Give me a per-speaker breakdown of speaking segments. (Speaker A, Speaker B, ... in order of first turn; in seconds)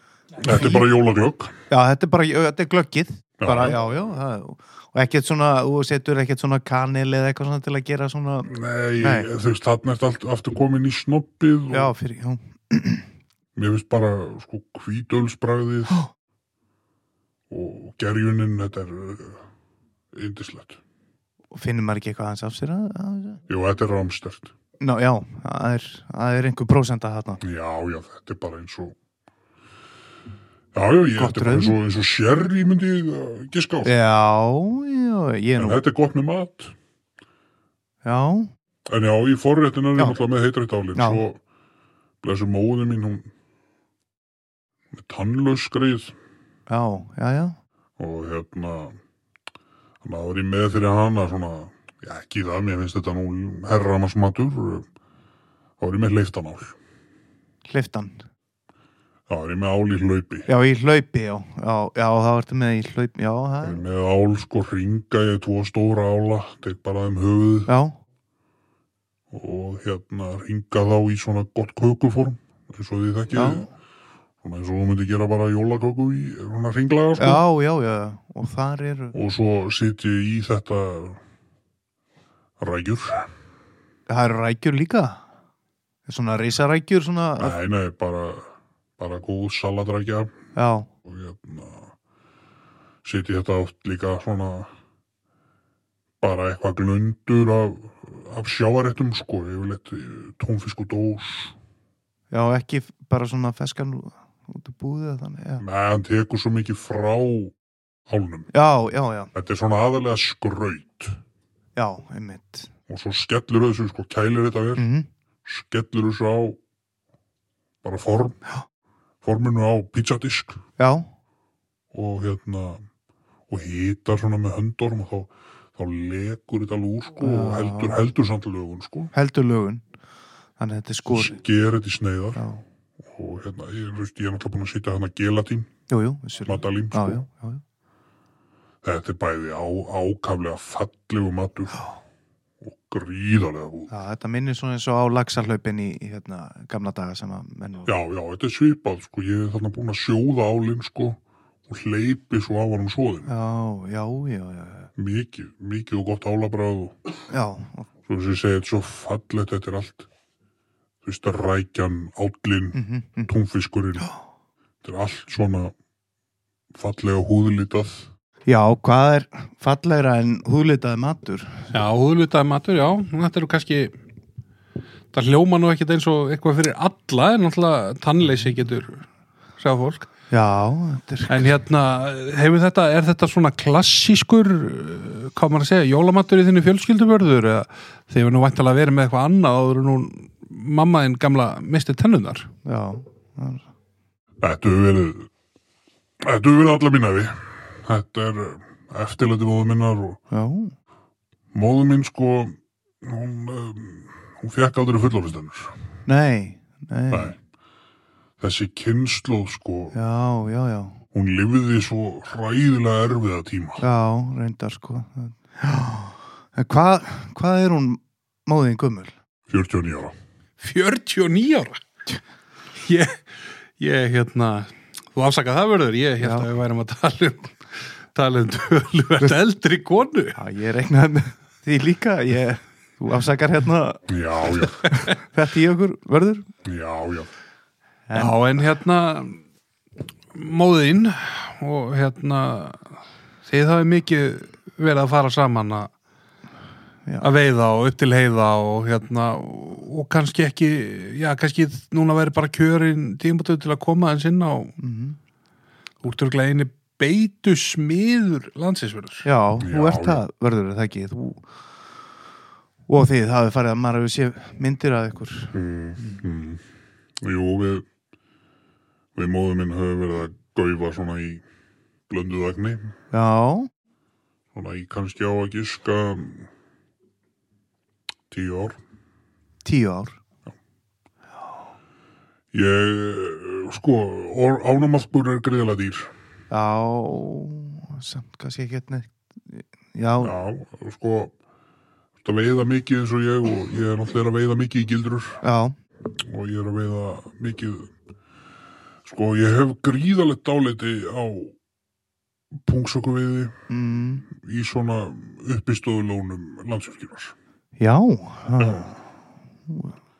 Speaker A: 0.4-0.9, 1.7-9.3, 11.7-13.1, 21.5-23.4, 24.8-27.4, 31.2-31.8, 33.9-35.8, 38.0-38.5, 41.0-41.2, 46.7-47.6, 57.7-58.3, 60.5-63.8, 67.7-68.0, 73.3-73.7, 77.2-79.2, 84.1-85.2, 86.1-87.6, 90.5-90.9, 102.3-105.6, 108.5-109.3, 111.8-112.7, 114.8-115.1, 120.8-121.1, 127.2-128.0, 129.1-129.8, 130.6-131.4, 132.4-132.6, 135.9-137.6, 143.9-147.9, 153.3-154.9, 157.3-157.9, 162.7-163.3, 168.5-171.7, 180.3-181.5, 192.7-193.7, 200.3-200.7, 206.1-207.3, 209.9-211.0, 213.8-219.1, 226.2-226.5, 230.4-236.5, 238.1-238.6, 254.8-255.2, 259.2-261.4, 262.9-266.2, 273.1-273.7, 279.6-280.2, 286.5-290.3, 295.4-295.8, 303.7-304.2, 307.8-309.0, 309.7-309.9
Speaker B: 0.4-1.5, 3.4-3.8, 8.5-11.9, 13.6-16.0, 17.5-19.4, 20.1-20.8, 23.5-24.5, 27.4-28.9, 30.7-33.9, 35.6-36.7, 38.9-41.4, 42.2-43.3, 44.9-46.1, 48.0-49.0, 50.0-54.9, 55.8-56.8, 59.3-60.5, 63.6-67.7, 69.3-73.7, 74.4-77.4, 79.1-81.2, 82.6-83.3, 87.4-90.4, 91.0-91.9, 93.0-94.7, 96.2-101.5, 105.6-107.5, 108.1-108.5, 109.3-111.2, 112.9-114.9, 115.5-116.6, 117.8-118.4, 119.2-120.6, 121.9-122.8, 123.5-129.1, 131.1-132.4, 133.1-135.7, 136.5-137.2, 138.8-141.9, 142.6-143.9, 147.9-153.3, 155.0-157.0, 158.1-160.1, 161.0-164.1, 164.8-165.7, 166.7-168.1, 194.4-195.3, 196.2-200.2, 201.5-205.8, 207.1-207.4, 208.4-210.0, 211.1-213.8, 219.5-220.2, 234.1-235.0, 236.7-237.3, 259.6-260.2, 265.5-266.6, 267.2-267.9, 269.1-271.4, 272.1-272.9, 274.5-276.5, 278.3-278.8, 282.5-286.1, 290.2-291.3, 292.2-295.4, 296.2-297.9, 299.1-301.6, 302.7-303.6, 304.3-307.4, 308.6-308.9
Speaker C: 171.7-173.9, 175.1-179.1, 179.6-180.1, 181.3-192.5, 220.6-221.8, 222.8-223.2, 223.8-227.6, 228.1-230.4, 238.2-239.4, 240.3-242.8, 243.4-245.9, 247.2-254.7, 256.0-259.3